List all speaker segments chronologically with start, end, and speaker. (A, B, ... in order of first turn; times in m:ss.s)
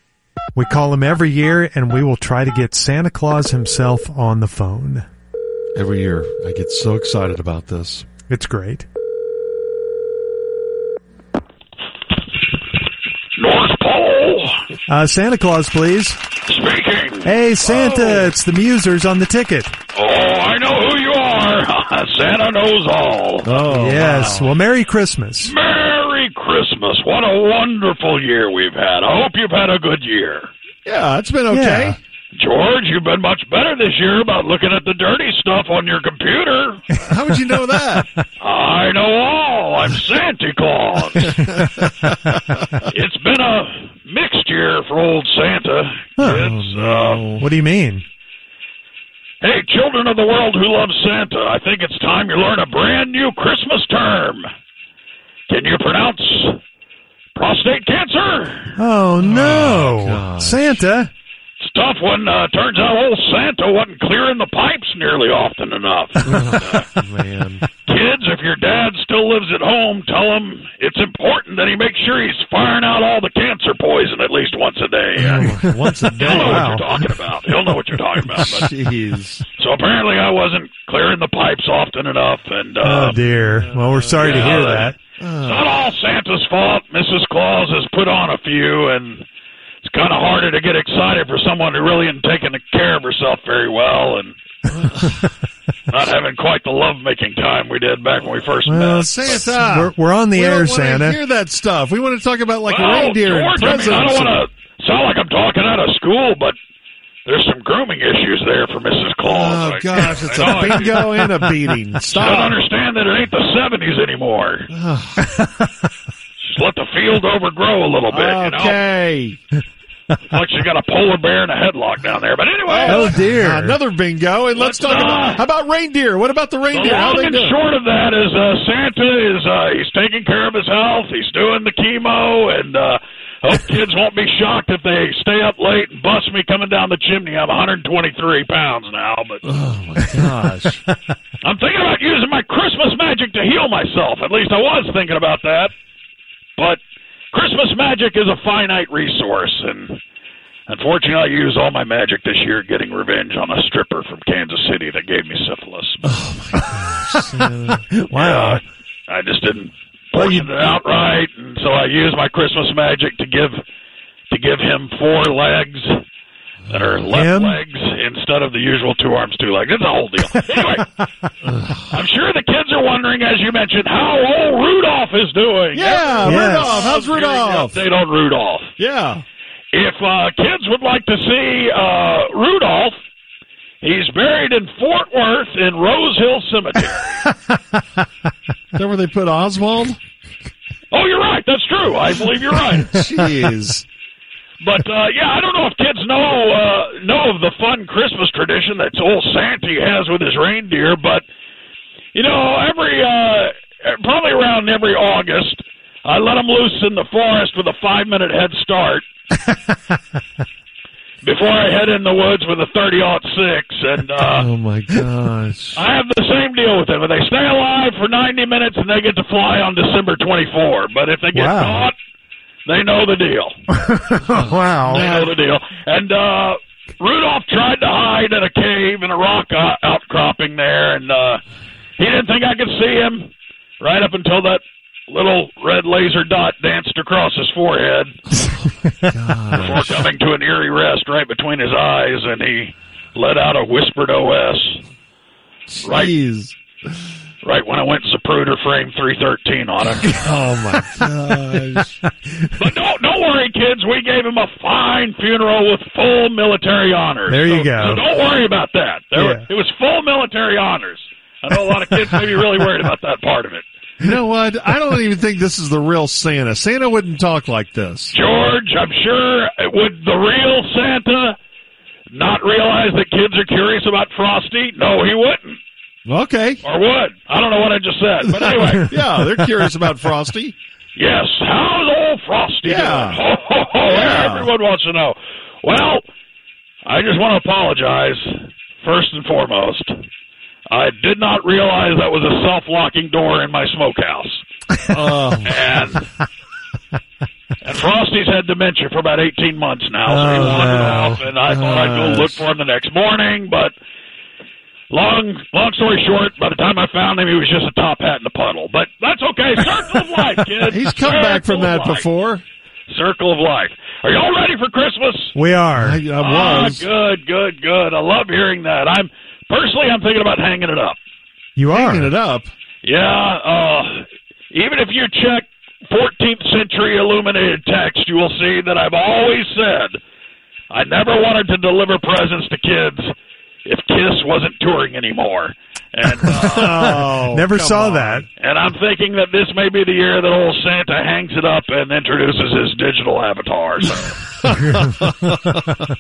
0:00.6-0:05.0 A
0:05.8-0:08.1 B
0:08.3-0:08.8 A
0:13.4-0:14.6 C
0:14.9-0:16.2 A
0:16.5-0:17.3 C
0:17.2-0:19.8 A
0:17.6-0:18.3 B
0:19.9-0:23.5 C
0:23.4-0:24.5 B
0:23.6-0:25.5 A
0:25.4-0:30.5 C
0:30.8-0:32.0 B
0:31.5-0:32.0 A
0:32.3-0:36.9 C
0:37.0-0:38.1 B
0:38.4-0:41.4 C
0:41.4-0:42.4 B
0:42.9-0:47.3 C
0:46.2-0:46.4 A
0:46.2-0:47.5 B
0:47.4-0:48.0 A
0:49.4-0:54.4 C
0:55.5-0:56.6 C
0:57.3-0:58.8 C
0:58.8-1:01.1 A
0:59.2-1:00.8 B
1:01.6-1:07.0 C
1:06.2-1:07.6 B
1:07.8-1:15.6 C
1:15.2-1:16.9 B
1:15.2-1:16.9 A
1:16.2-1:18.8 C
1:18.3-1:19.4 B
1:19.6-1:23.2 C
1:22.8-1:25.0 A
1:23.2-1:24.2 B
1:24.1-1:29.2 C
1:25.2-1:25.7 B
1:29.8-1:34.4 C
1:35.9-1:39.5 C
1:38.6-1:41.2 A
1:39.0-1:44.4 B
1:42.7-1:46.6 C
1:47.2-1:51.3 C
1:49.2-1:52.6 B
1:52.1-1:54.7 C
1:54.7-1:55.4 B
1:55.2-1:55.7 A
1:56.4-1:58.8 C
1:58.1-1:59.4 B
2:00.3-2:03.2 C
2:02.7-2:07.5 B
2:02.8-2:03.8 A
2:04.6-2:05.4 C
2:06.7-2:19.4 C
2:19.4-2:20.8 B
2:21.4-2:25.7 C
2:27.3-2:30.0 C
2:30.7-2:36.2 C
2:36.0-2:37.8 B
2:37.9-2:38.6 A
2:38.1-2:43.6 C
2:40.1-2:40.5 A
2:44.3-2:46.0 C
2:46.7-2:51.0 C
2:47.1-2:47.6 A
2:51.8-2:58.7 C
2:55.7-2:57.8 B
2:56.2-2:56.8 A
2:58.8-2:59.2 B
2:59.7-3:02.9 C
3:03.8-3:07.2 C
3:08.7-3:10.0 B
3:10.9-3:13.0 C
3:12.9-3:13.8 B
3:14.6-3:21.2 C
3:22.1-3:29.0 C
3:31.2-3:34.5 C
3:34.2-3:35.8 B
3:35.7-3:41.9 C
3:41.3-3:41.9 A
3:42.6-3:43.6 C
3:43.8-3:45.0 A
3:44.3-3:45.4 B
3:44.8-3:51.4 C
3:52.0-3:58.2 C
3:59.1-4:00.1 B
3:59.5-4:04.8 C
4:05.7-4:06.6 B
4:05.8-4:06.1 C
4:07.4-4:10.3 C
4:10.1-4:12.0 B
4:12.6-4:23.6 C
4:17.3-4:18.0 A
4:19.1-4:19.4 A
4:24.0-4:28.1 B
4:28.1-4:31.4 C
4:32.1-4:35.6 C
4:36.0-4:36.6 B
4:36.6-4:38.9 C
4:38.3-4:40.5 B
4:41.0-4:46.0 C
4:42.6-4:43.2 B
4:43.8-4:44.5 B
4:46.8-4:50.0 C
4:50.7-4:54.4 C
4:54.9-4:55.7 B
4:55.4-4:56.0 C
4:57.6-5:03.7 C
5:00.0-5:01.2 A
5:00.2-5:00.9 B
5:01.4-5:02.4 B
5:04.9-5:12.0 C
5:10.6-5:12.4 B
5:12.9-5:15.4 C
5:15.3-5:16.0 A
5:15.8-5:16.9 B
5:16.2-5:21.0 C
5:21.6-5:22.1 A
5:21.7-5:22.5 B
5:22.8-5:30.0 C
5:30.7-5:33.1 C
5:33.6-5:37.0 C
5:36.3-5:38.2 B
5:36.8-5:38.2 A
5:38.4-5:44.3 C
5:44.4-5:45.6 B
5:44.6-5:45.6 A